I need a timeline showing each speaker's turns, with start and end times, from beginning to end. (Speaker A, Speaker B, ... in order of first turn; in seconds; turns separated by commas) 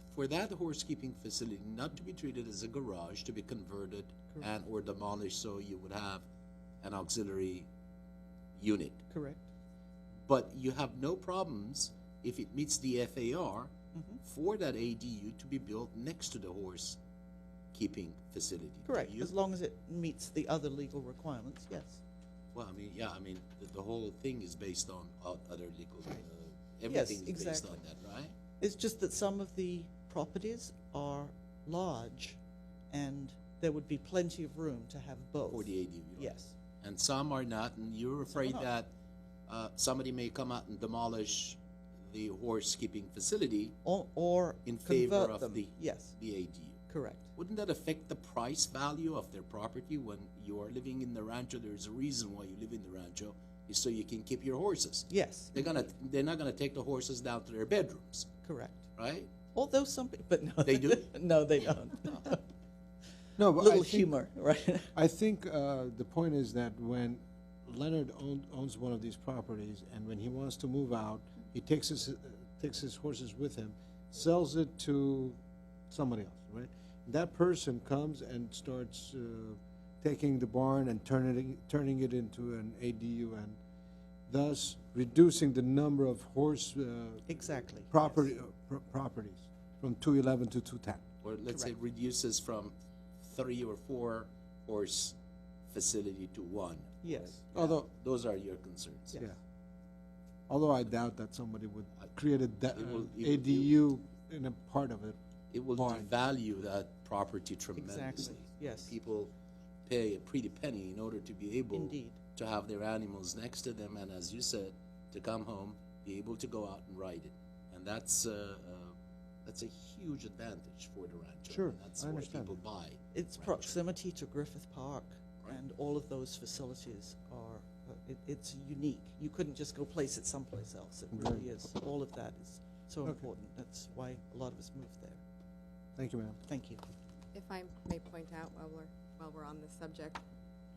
Speaker A: 0.1-6.2, Speaker A: 6.8-7.7, Speaker A: 8.6-9.0, Speaker B: 9.1-9.4, Speaker A: 10.2-17.0, Speaker B: 13.9-14.2, Speaker A: 17.7-19.3, Speaker B: 18.9-22.0, Speaker A: 22.5-28.3, Speaker B: 26.9-27.8, Speaker B: 28.6-32.4, Speaker B: 32.9-36.5, Speaker A: 35.5-38.9, Speaker B: 38.2-38.7, Speaker A: 39.5-43.8, Speaker B: 43.8-46.1, Speaker A: 44.6-58.3, Speaker B: 46.9-47.3, Speaker B: 55.1-55.7, Speaker B: 58.4-58.8, Speaker A: 59.0-59.3, Speaker B: 59.5-62.4, Speaker A: 60.6-61.1, Speaker C: 63.4-64.1, Speaker B: 63.5-64.9, Speaker C: 64.9-75.4, Speaker C: 75.9-83.6, Speaker C: 84.3-91.0, Speaker B: 87.3-88.3, Speaker A: 91.2-95.2, Speaker A: 95.7-99.2, Speaker B: 97.0-97.4, Speaker C: 97.5-97.8, Speaker C: 100.5-105.2, Speaker A: 102.7-103.7, Speaker A: 105.5-109.3, Speaker C: 105.7-106.1, Speaker B: 107.8-108.9, Speaker A: 109.8-123.7, Speaker B: 111.7-112.2, Speaker C: 121.5-122.6, Speaker B: 123.1-135.2, Speaker C: 131.1-131.5, Speaker C: 135.9-136.4, Speaker B: 136.5-136.8, Speaker D: 137.3-140.2